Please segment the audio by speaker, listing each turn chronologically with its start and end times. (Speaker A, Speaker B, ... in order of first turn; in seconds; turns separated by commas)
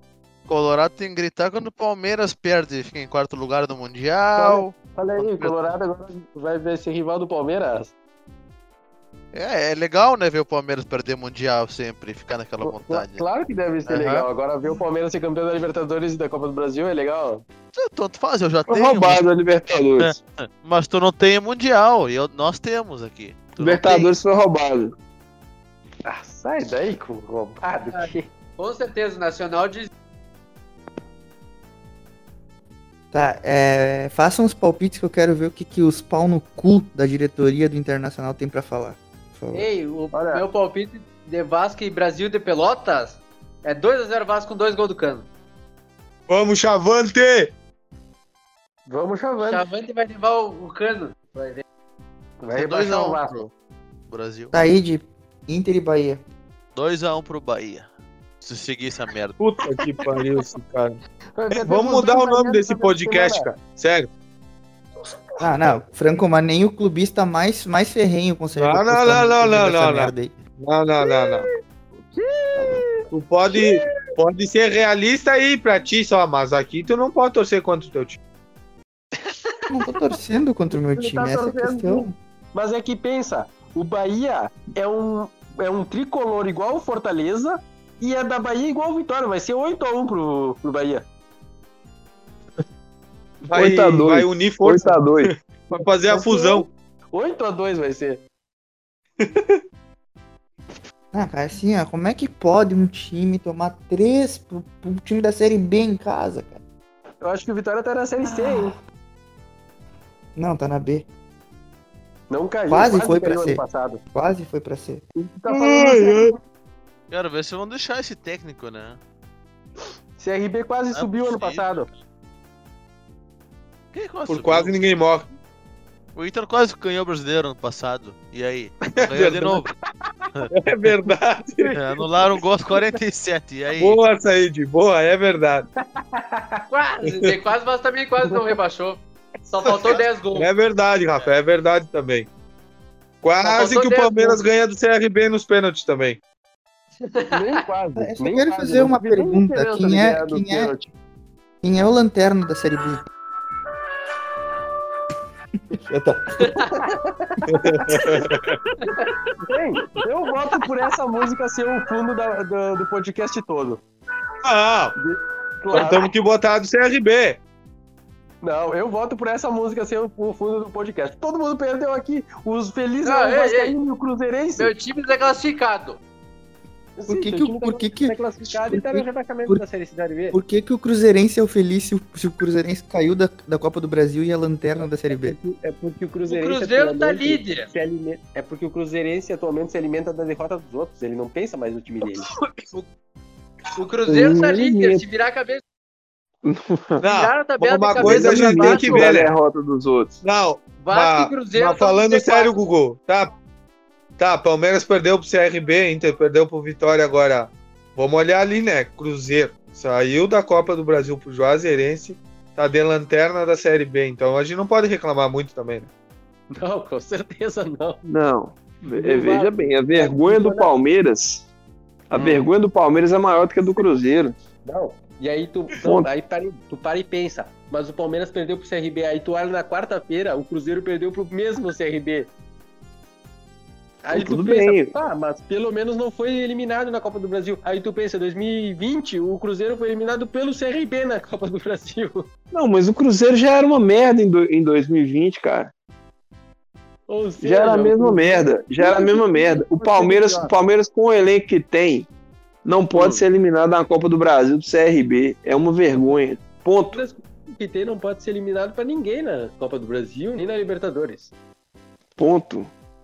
Speaker A: 0.5-5.7, Speaker B: 4.4-7.9, Speaker A: 9.3-13.2, Speaker B: 12.6-17.4, Speaker A: 13.9-14.2, Speaker A: 17.7-24.1, Speaker C: 18.7-20.2, Speaker C: 23.6-24.9, Speaker B: 26.0-28.3, Speaker D: 27.9-29.9, Speaker E: 33.1-39.7, Speaker D: 39.5-45.3, Speaker B: 40.1-40.4, Speaker F: 46.3-47.5, Speaker B: 48.9-49.6, Speaker D: 49.4-51.6, Speaker B: 52.4-53.5, Speaker A: 52.5-53.5, Speaker A: 54.1-54.5, Speaker E: 54.5-56.2, Speaker A: 56.7-57.9, Speaker A: 58.4-59.4, Speaker F: 59.4-61.0, Speaker B: 61.3-63.5, Speaker F: 61.5-64.1, Speaker E: 65.4-70.4, Speaker F: 68.6-71.5, Speaker E: 72.5-72.8, Speaker F: 73.1-78.2, Speaker E: 79.7-82.2, Speaker B: 81.0-91.0, Speaker C: 93.5-95.3, Speaker F: 93.5-96.7, Speaker B: 95.7-98.2, Speaker F: 99.2-99.6, Speaker E: 101.1-106.6, Speaker B: 107.2-108.8, Speaker E: 108.2-108.8, Speaker E: 110.3-111.0, Speaker B: 112.3-114.0, Speaker E: 112.7-115.0, Speaker B: 115.2-116.3, Speaker F: 115.5-116.3, Speaker A: 117.1-119.0, Speaker B: 120.2-121.9, Speaker A: 120.9-121.9, Speaker A: 123.9-124.8, Speaker F: 124.3-125.3, Speaker A: 126.2-129.7, Speaker F: 128.9-129.6, Speaker F: 130.5-131.8, Speaker A: 131.7-134.0, Speaker F: 133.8-135.7, Speaker B: 135.8-136.6, Speaker D: 136.7-140.6, Speaker B: 138.3-138.5, Speaker F: 139.7-142.3, Speaker F: 143.2-146.2, Speaker D: 143.4-144.4, Speaker D: 147.1-147.5, Speaker B: 147.3-150.9, Speaker E: 147.9-150.7, Speaker E: 151.6-153.0, Speaker E: 155.7-156.6, Speaker D: 156.4-156.7, Speaker B: 156.8-157.9, Speaker F: 157.5-158.6, Speaker B: 159.5-163.8, Speaker F: 164.4-164.9, Speaker B: 165.0-166.1, Speaker F: 165.7-167.4, Speaker B: 168.4-174.7, Speaker D: 173.0-173.8, Speaker D: 174.6-176.0, Speaker B: 177.0-180.4, Speaker E: 177.1-179.6, Speaker E: 180.3-185.4, Speaker B: 185.1-192.3, Speaker D: 186.3-187.7, Speaker D: 192.6-192.8, Speaker D: 193.8-195.6, Speaker C: 194.1-195.0, Speaker C: 196.4-197.0, Speaker F: 197.0-199.3, Speaker D: 197.0-199.1, Speaker C: 198.0-200.2, Speaker F: 200.2-203.3, Speaker D: 200.8-202.6, Speaker F: 204.2-215.9, Speaker B: 216.5-218.0, Speaker C: 218.0-221.5, Speaker B: 218.9-220.7, Speaker C: 222.1-224.3, Speaker B: 222.1-222.4, Speaker B: 224.6-232.3, Speaker C: 225.8-226.1, Speaker B: 234.0-242.3, Speaker C: 234.1-234.9, Speaker C: 242.5-245.7, Speaker B: 247.1-250.5, Speaker C: 247.4-252.1, Speaker C: 252.6-257.0, Speaker B: 252.9-253.2, Speaker B: 256.9-261.3, Speaker C: 262.2-262.7